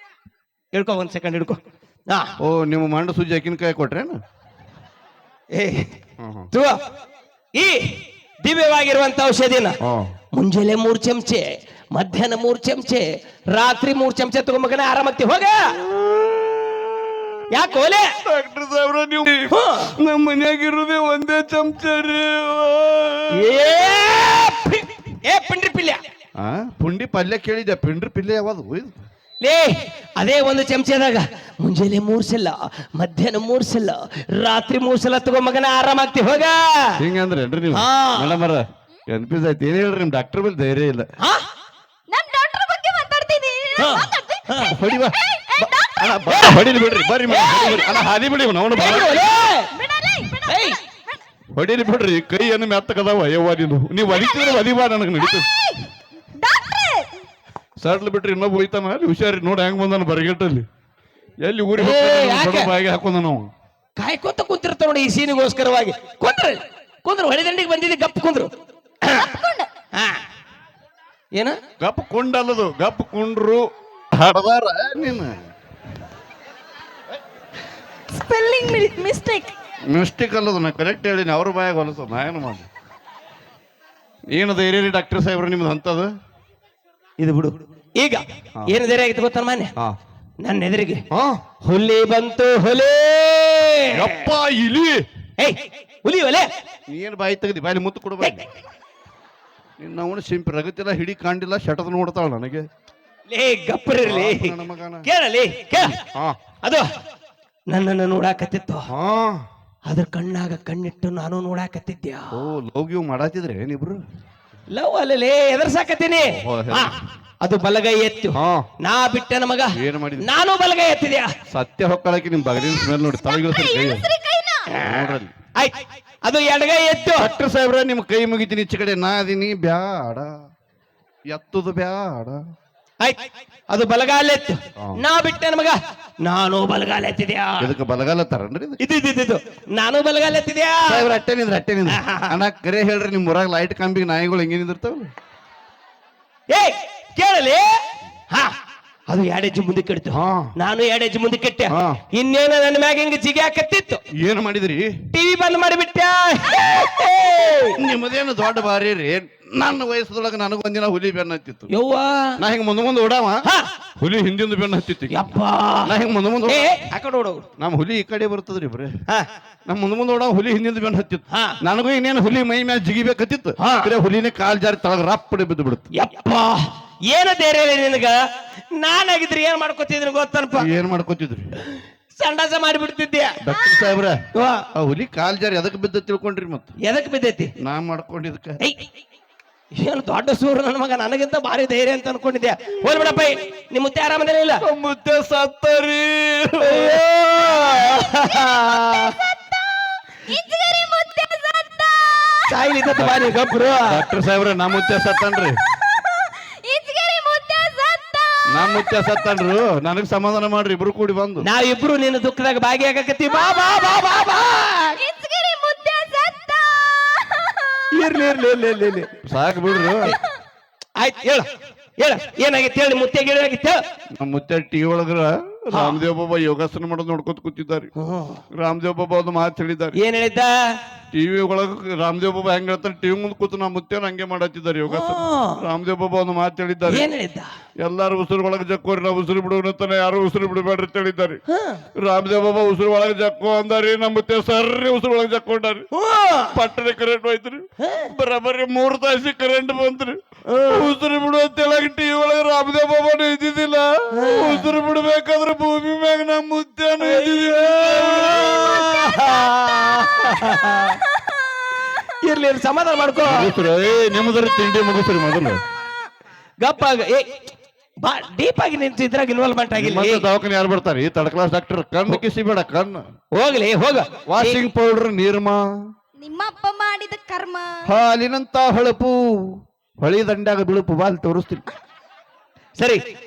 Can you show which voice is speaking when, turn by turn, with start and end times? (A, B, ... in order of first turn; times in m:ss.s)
0:00.7-0:02.3 A
0:02.4-0:04.2 B
0:05.5-0:05.9 A
0:06.2-0:06.5 B
0:07.5-0:09.8 A
0:09.8-0:10.1 B
0:10.3-0:15.7 A
0:15.9-0:17.4 B
0:17.5-0:18.1 A
0:18.2-0:23.6 B
0:19.5-0:20.0 A
0:23.4-0:26.0 A
0:26.4-0:29.0 B
0:29.4-0:36.9 A
0:37.0-0:41.1 B
0:37.7-0:38.4 A
0:42.1-0:48.0 C
0:43.8-0:44.7 A
0:44.7-0:49.2 B
0:47.3-0:47.7 A
0:48.8-0:49.7 A
0:48.8-0:51.2 C
0:50.4-0:50.8 A
0:51.6-0:55.5 B
0:54.1-0:54.6 C
0:55.2-0:57.1 C
0:57.8-1:00.6 B
1:01.4-1:03.5 B
1:01.8-1:02.7 A
1:04.0-1:08.5 A
1:09.1-1:09.7 C
1:11.8-1:15.5 B
1:18.1-1:19.5 C
1:19.9-1:22.7 B
1:24.3-1:26.1 B
1:27.2-1:29.7 A
1:30.4-1:31.0 A
1:31.1-1:31.4 B
1:31.6-1:34.3 A
1:33.9-1:35.0 B
1:35.4-1:36.5 A
1:36.9-1:38.5 B
1:39.8-1:42.7 B
1:43.3-1:46.0 A
1:44.0-1:45.1 B
1:45.8-1:46.4 B
1:47.7-1:48.8 A
1:48.9-1:49.4 B
1:49.9-1:52.3 A
1:52.3-1:54.0 B
1:54.7-1:56.9 A
1:56.2-1:57.0 B
1:57.4-2:01.3 A
1:58.3-1:58.7 B
1:59.7-2:00.3 B
2:01.5-2:04.1 B
2:02.6-2:04.7 C
2:04.7-2:07.2 A
2:04.8-2:05.3 B
2:07.1-2:10.3 B
2:11.3-2:12.4 B
2:13.7-2:17.7 A
2:17.6-2:18.8 B
2:18.8-2:21.0 A
2:20.9-2:25.1 B
2:21.9-2:22.3 A
2:26.5-2:27.8 A
2:29.1-2:34.0 A
2:30.1-2:30.5 B
2:31.7-2:32.0 B
2:34.2-2:34.9 B
2:35.1-2:37.8 A
2:37.8-2:41.7 B
2:41.7-2:42.3 A
2:42.4-2:43.4 B
2:44.0-2:45.3 B
2:45.1-2:45.9 A
2:45.8-2:46.7 B
2:46.4-2:47.4 A
2:47.6-2:48.9 B
2:49.7-2:55.9 B
2:53.6-2:53.9 A
2:56.0-2:58.2 A
2:58.8-3:00.7 A
3:00.5-3:01.5 B
3:02.2-3:03.4 A
3:03.4-3:04.2 B
3:03.6-3:03.9 C
3:04.7-3:06.8 B
3:06.8-3:07.5 A
3:07.6-3:08.6 B
3:09.8-3:14.6 A
3:12.7-3:13.1 C
3:14.6-3:18.0 B
3:16.7-3:19.1 A
3:17.6-3:23.1 C
3:22.5-3:23.9 A
3:22.9-3:25.6 B
3:25.7-3:29.2 C
3:28.5-3:31.5 B
3:31.5-3:35.0 A
3:33.2-3:34.4 C
3:34.9-3:38.4 C
3:37.9-3:39.1 A
3:39.2-3:40.2 B
3:41.0-3:41.4 A
3:42.0-3:43.8 A
3:44.2-3:47.9 B
3:45.7-3:46.0 A
3:48.0-3:48.4 A
3:48.5-3:50.0 B
3:50.0-3:50.5 A
3:51.1-3:57.1 B
3:54.9-3:55.6 A
3:56.9-3:57.5 A
3:57.8-4:01.4 B
4:01.5-4:01.8 A
4:02.0-4:05.9 B
4:05.9-4:06.5 A
4:06.5-4:19.0 B
4:07.8-4:08.1 A
4:10.5-4:10.9 A
4:14.1-4:14.7 A
4:17.0-4:21.0 A
4:21.2-4:21.6 C
4:22.2-4:23.5 A
4:23.2-4:25.6 B
4:26.6-4:27.3 A
4:28.0-4:30.2 A
4:29.7-4:33.0 B
4:33.3-4:34.6 A
4:34.3-4:35.6 B
4:36.2-4:37.8 C
4:37.8-4:41.6 B